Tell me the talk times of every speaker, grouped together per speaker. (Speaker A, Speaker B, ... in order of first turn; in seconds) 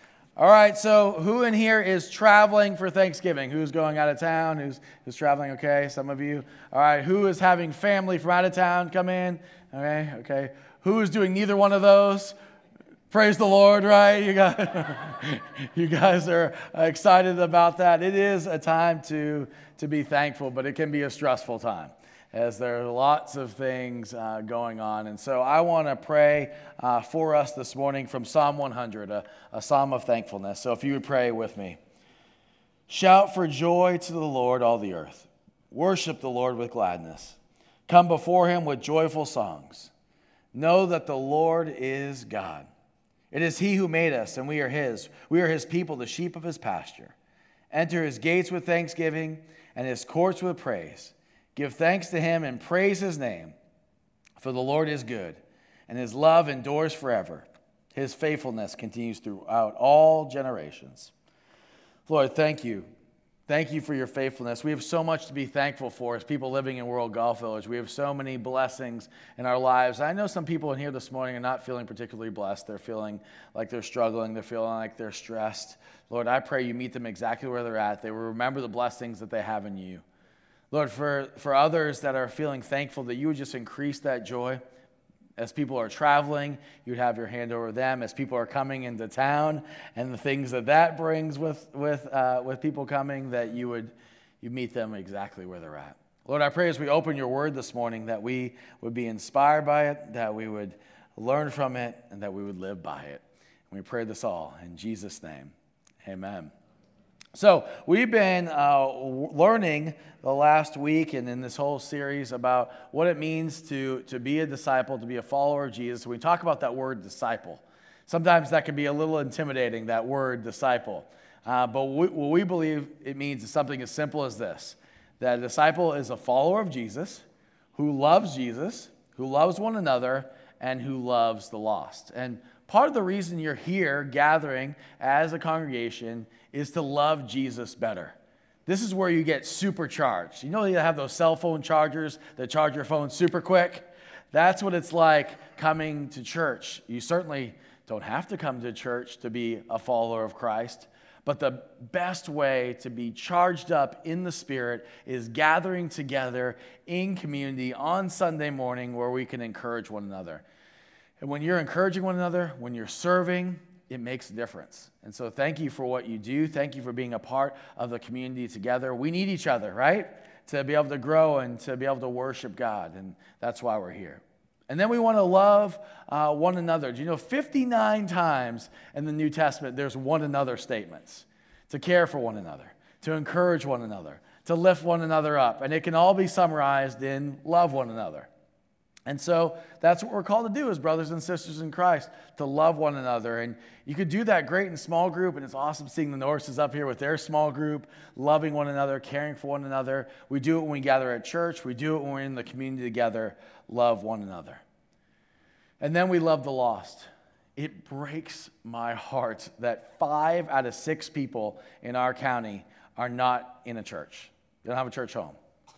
Speaker A: 0.4-12.3, 13.1-31.8, 32.9-39.9, 40.5-42.7, 43.3-47.1, 47.7-53.5, 54.4-61.1, 62.1-62.9, 63.5-80.0, 80.7-84.6, 85.4-106.5, 107.3-127.2, 127.8-160.4, 161.2-188.3, 189.1-204.6, 205.8-215.3